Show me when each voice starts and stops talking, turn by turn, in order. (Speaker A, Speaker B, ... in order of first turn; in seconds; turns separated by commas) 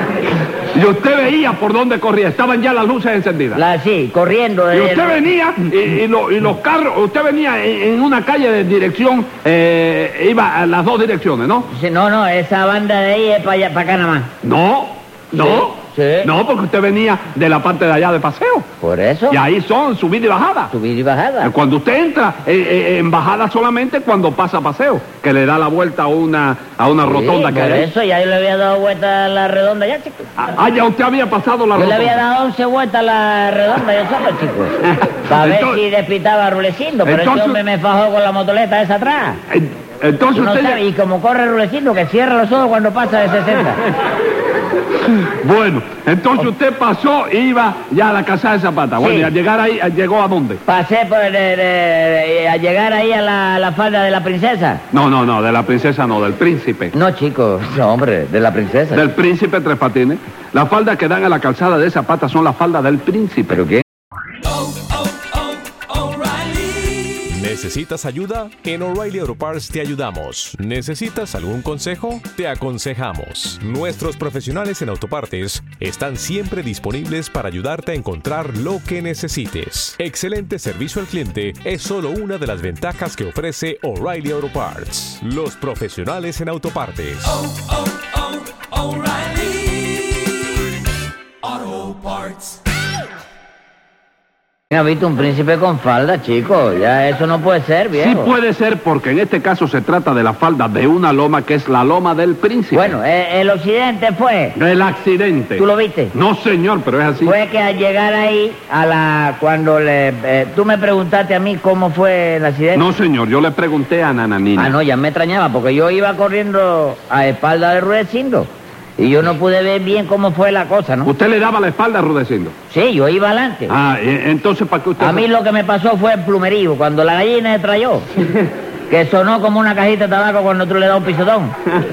Speaker A: 0.7-3.6, Speaker B: 3.5-5.2, Speaker A: 4.7-11.7, Speaker B: 11.7-14.3, Speaker A: 14.4-18.7, Speaker B: 15.3-16.3, Speaker B: 18.8-19.4, Speaker A: 19.3-20.7, Speaker B: 20.7-21.5, Speaker A: 21.4-27.9, Speaker B: 27.0-30.2, Speaker A: 30.4-32.2, Speaker B: 31.8-34.8, Speaker B: 35.3-39.4, Speaker A: 35.3-35.8, Speaker A: 37.0-37.6, Speaker A: 39.5-40.8, Speaker B: 40.3-43.8, Speaker A: 45.1-50.6, Speaker B: 49.0-49.3, Speaker B: 50.6-54.8, Speaker A: 54.9-56.9, Speaker B: 56.9-59.0, Speaker A: 58.9-63.6, Speaker B: 63.5-63.8, Speaker C: 67.3-87.5, Speaker B: 94.7-98.3, Speaker A: 97.9-102.9, Speaker B: 102.7-104.6, Speaker A: 104.5-107.3, Speaker B: 105.6-106.1, Speaker B: 107.2-112.9, Speaker A: 112.7-114.7, Speaker B: 114.6-121.1, Speaker A: 121.0-122.5, Speaker B: 122.7-123.7, Speaker A: 123.7-125.2, Speaker B: 125.0-128.1, Speaker B: 128.9-131.6